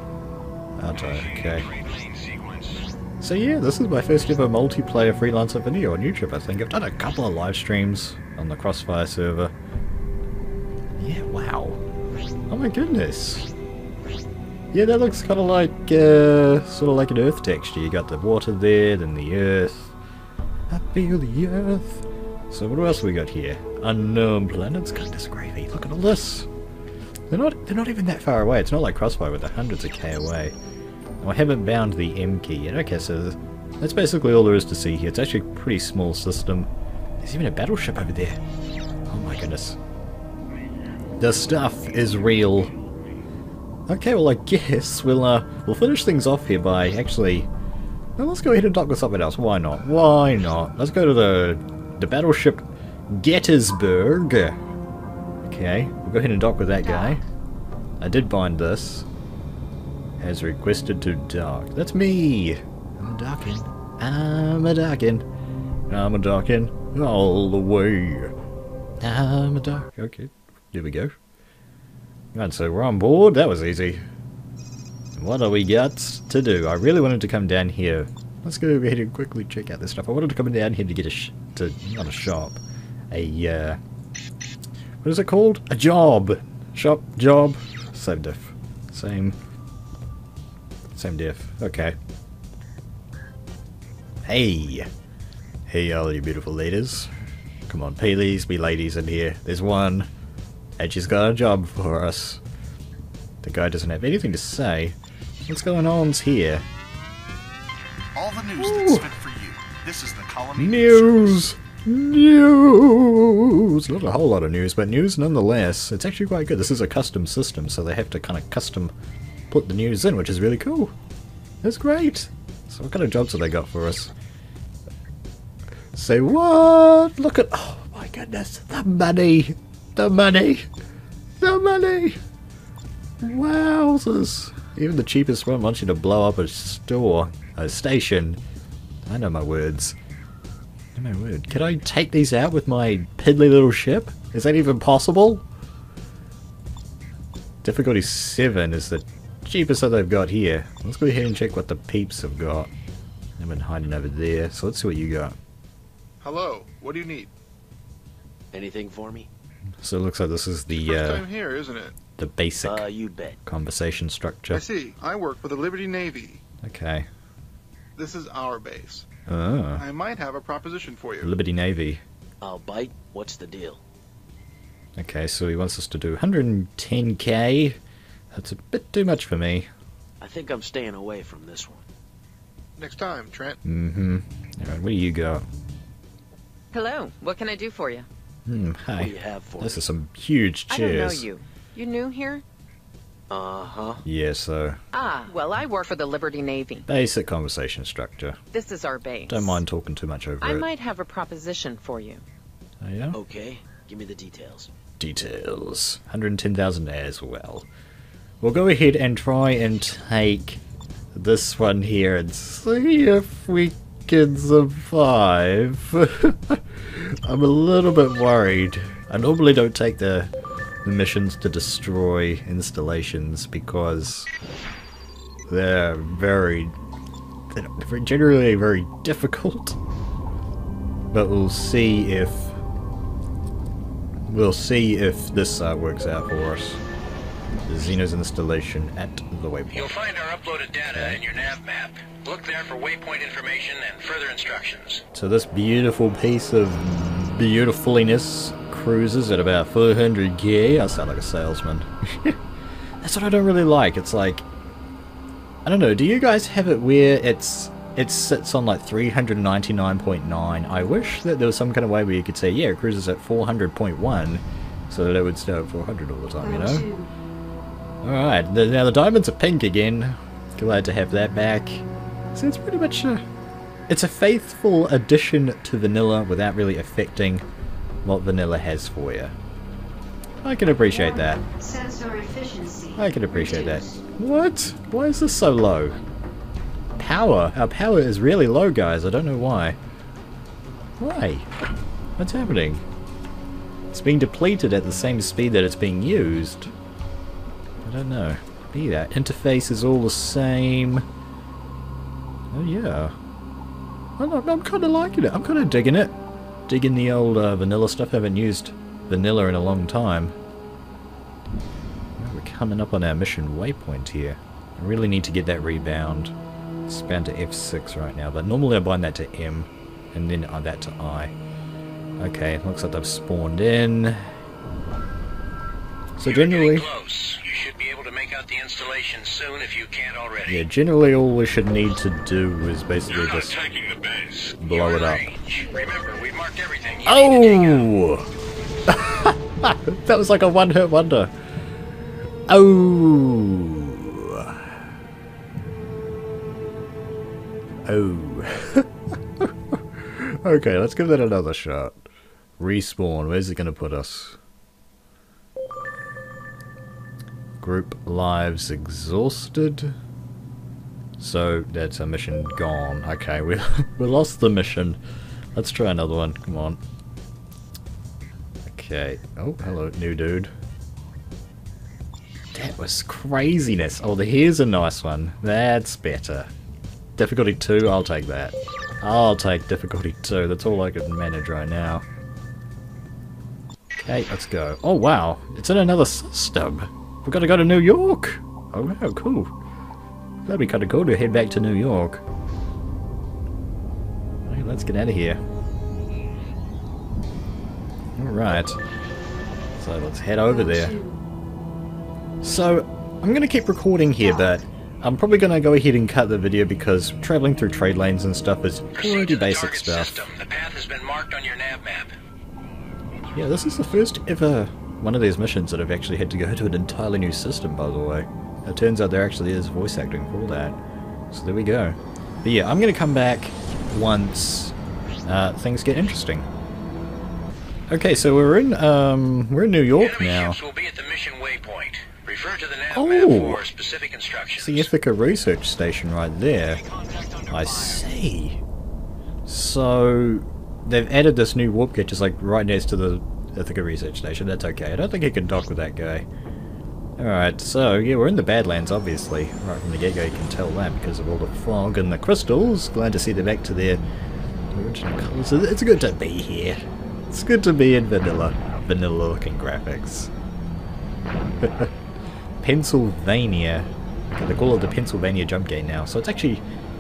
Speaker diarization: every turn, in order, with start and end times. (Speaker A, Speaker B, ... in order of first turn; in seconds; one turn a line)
Speaker A: 0.8-1.7
Speaker B: 0.9-2.9
Speaker A: 3.2-9.5
Speaker A: 11.0-11.8
Speaker A: 12.5-13.5
Speaker A: 14.7-19.9
Speaker A: 20.7-26.5
Speaker A: 27.3-30.6
Speaker A: 31.2-36.7
Speaker A: 37.2-38.4
Speaker A: 39.1-39.8
Speaker A: 41.2-42.7
Speaker A: 43.9-47.5
Speaker A: 48.2-54.6
Speaker A: 55.4-57.2
Speaker A: 58.0-59.1
Speaker A: 60.2-65.2
Speaker A: 65.9-68.3
Speaker A: 69.0-71.1
Speaker A: 72.3-74.0
Speaker A: 75.2-83.8
Speaker A: 85.0-89.4
Speaker A: 90.9-92.0
Speaker A: 94.2-94.9
Speaker A: 95.7-97.1
Speaker A: 97.7-100.1
Speaker A: 100.8-102.4
Speaker A: 103.4-106.6
Speaker C: 108.2-111.5
Speaker A: 108.6-109.1
Speaker A: 110.6-118.9
Speaker A: 119.5-120.9
Speaker A: 121.6-124.1
Speaker A: 125.9-130.7
Speaker A: 131.4-132.2
Speaker A: 133.2-138.4
Speaker A: 139.1-140.0
Speaker A: 140.9-145.4
Speaker A: 147.6-152.7
Speaker A: 153.4-155.4
Speaker C: 156.2-157.3
Speaker D: 158.5-159.3
Speaker A: 159.8-161.3
Speaker C: 160.7-162.0
Speaker A: 162.2-162.9
Speaker D: 162.6-163.4
Speaker A: 163.4-164.6
Speaker C: 164.5-166.4
Speaker A: 166.6-167.1
Speaker C: 168.0-169.1
Speaker A: 169.3-169.8
Speaker C: 169.8-171.4
Speaker A: 171.2-172.0
Speaker D: 172.4-173.8
Speaker A: 175.0-177.8
Speaker A: 178.3-179.7
Speaker D: 180.2-181.8
Speaker C: 182.8-183.6
Speaker A: 183.6-185.4
Speaker E: 186.7-188.1
Speaker A: 188.5-191.3
Speaker D: 189.0-189.8
Speaker E: 190.7-192.4
Speaker D: 193.3-194.0
Speaker A: 194.1-194.8
Speaker E: 194.9-196.9
Speaker A: 196.9-198.4
Speaker E: 198.5-199.6
Speaker A: 199.3-200.7
Speaker E: 200.4-202.2
Speaker A: 202.8-203.2
Speaker D: 203.1-204.7
Speaker A: 205.0-207.7
Speaker A: 208.4-210.6
Speaker A: 211.1-220.3
Speaker A: 220.8-224.3
Speaker A: 225.5-226.7
Speaker A: 227.5-229.8
Speaker A: 231.1-232.6
Speaker A: 234.3-236.8
Speaker A: 237.7-240.0
Speaker B: 239.7-245.0
Speaker A: 240.9-241.2
Speaker A: 245.1-252.4
Speaker A: 253.0-254.4
Speaker A: 255.7-267.1
Speaker A: 268.0-273.2
Speaker A: 273.9-277.4
Speaker A: 278.1-279.4
Speaker A: 280.4-281.4
Speaker E: 281.6-282.9
Speaker A: 283.0-286.0
Speaker A: 287.0-289.8
Speaker A: 291.0-291.5
Speaker A: 292.2-292.8
Speaker A: 293.9-296.7
Speaker A: 297.8-301.1
Speaker A: 302.5-303.1
Speaker A: 304.2-306.1
Speaker A: 306.7-310.4
Speaker A: 312.2-316.3
Speaker A: 316.9-321.3
Speaker A: 322.2-324.3
Speaker A: 326.2-326.9
Speaker B: 326.2-330.6
Speaker A: 330.5-333.6
Speaker B: 333.1-337.9
Speaker A: 334.6-335.2
Speaker A: 337.1-338.3
Speaker A: 338.9-341.3
Speaker A: 342.5-344.7
Speaker A: 347.9-348.9
Speaker A: 349.4-352.1
Speaker A: 352.6-354.4
Speaker A: 357.6-359.9
Speaker A: 361.2-365.0
Speaker A: 365.6-366.8
Speaker A: 368.7-370.5
Speaker A: 372.5-376.5
Speaker A: 377.2-382.1
Speaker A: 384.0-389.5
Speaker A: 390.4-392.2
Speaker A: 394.4-395.4
Speaker A: 398.2-398.8
Speaker A: 399.8-401.1
Speaker A: 402.4-410.3
Speaker B: 408.9-412.1
Speaker A: 413.4-420.8
Speaker A: 421.3-424.7
Speaker A: 425.3-426.5
Speaker A: 427.9-430.6
Speaker B: 430.0-434.9
Speaker A: 432.9-433.6
Speaker A: 434.6-436.8
Speaker B: 436.8-438.0
Speaker A: 437.5-438.6
Speaker A: 439.5-446.2
Speaker A: 447.2-454.0
Speaker A: 454.7-460.3
Speaker A: 461.6-461.9
Speaker A: 462.6-466.6